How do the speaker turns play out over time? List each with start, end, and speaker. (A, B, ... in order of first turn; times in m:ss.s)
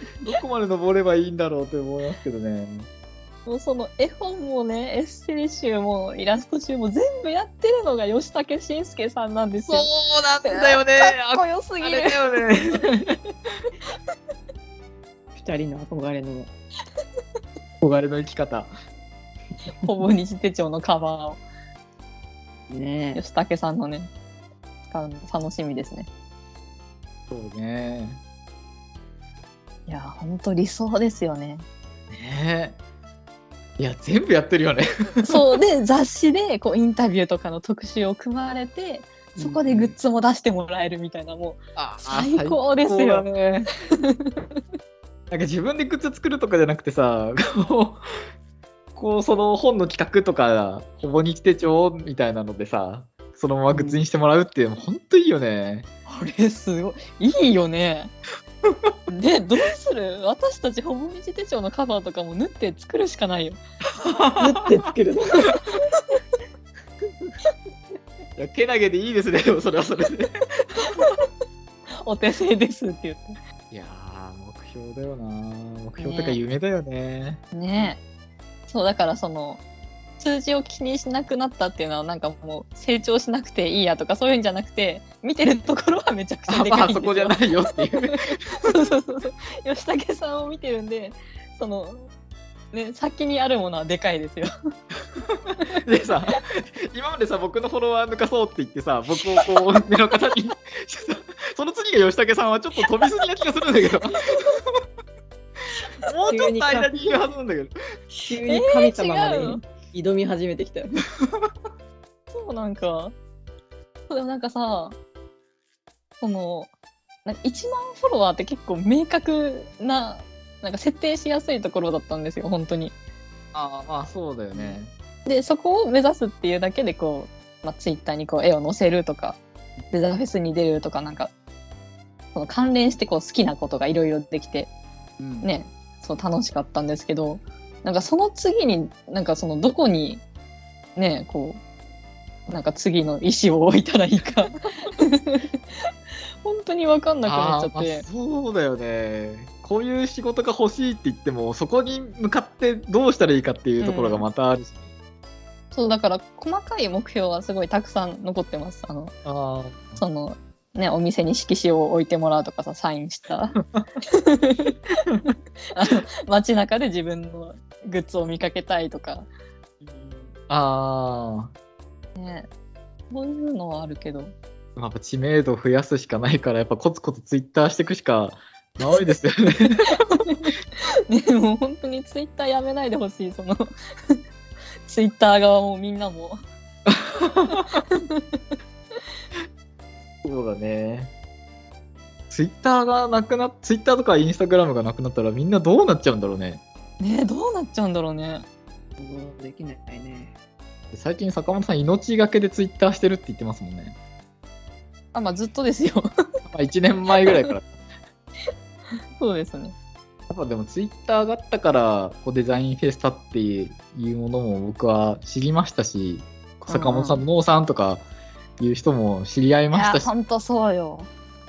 0:00.2-0:02.9 A
0:03.4-0:09.9 B
0:09.6-0:13.2 A
0:10.4-0:12.2 B
0:15.4-0:16.5 C
0:17.8-0:18.7 A
0:19.8-0:21.4 B
0:22.7-0:23.2 C
0:23.2-0:24.1 B
0:24.9-0:26.1 B
0:27.3-0:28.2 A
0:29.9-0:31.6 B
0:32.1-0:32.8 A
0:33.8-0:35.5 A
0:35.2-0:43.2 B
0:39.4-0:39.9 C
0:41.8-0:43.7 A
0:43.9-0:44.4 B
0:45.3-0:48.0 A
0:48.9-0:55.9 A
0:53.7-0:54.0 C
0:56.1-0:58.1 B
0:59.1-1:03.6 B
1:03.9-1:04.8 A
1:04.4-1:05.6 C
1:08.4-1:11.2 A
1:10.9-1:11.1 B
1:12.0-1:13.4 B
1:13.7-1:17.4 A
1:16.0-1:16.4 B
1:17.5-1:18.0 B
1:18.7-1:19.6 B
1:20.2-1:32.1 B
1:26.5-1:28.7 A
1:32.7-1:34.5 B
1:35.3-1:44.8 A
1:44.3-1:44.6 B
1:46.0-1:47.7 A
1:46.3-1:47.2 C
1:48.2-1:51.0 C
1:48.5-1:49.6 B
1:52.3-1:53.1 B
1:54.1-1:55.0 B
1:56.2-1:56.7 B
1:57.2-2:02.9 B
2:03.5-2:04.9 A
2:05.2-2:09.4 B
2:09.9-2:11.3 B
2:12.3-2:14.7 B
2:15.4-2:20.2 B
2:21.0-2:21.6 B
2:22.5-2:25.9 B
2:26.4-2:28.0 B
2:27.2-2:34.8 A
2:33.8-2:34.2 B
2:35.7-2:39.1 B
2:39.2-2:40.0 A
2:40.0-2:49.3 B
2:49.8-2:50.3 C
2:50.5-2:51.5 A
2:52.2-2:52.5 B
2:53.1-2:54.3 B
2:54.8-3:00.0 A
2:59.9-3:04.2 B
3:04.8-3:06.4 B
3:06.8-3:07.8 A
3:07.5-3:08.4 B
3:10.2-3:11.1 A
3:12.3-3:16.6 A
3:17.0-3:18.4 B
3:19.0-3:20.3 C
3:20.9-3:24.0 A
3:25.1-3:26.1 B
3:26.5-3:27.7 A
3:27.2-3:27.5 B
3:29.2-3:29.7 B
3:30.3-3:38.0 A
3:36.7-3:37.2 B
3:38.6-3:40.1 A
3:39.7-3:41.1 B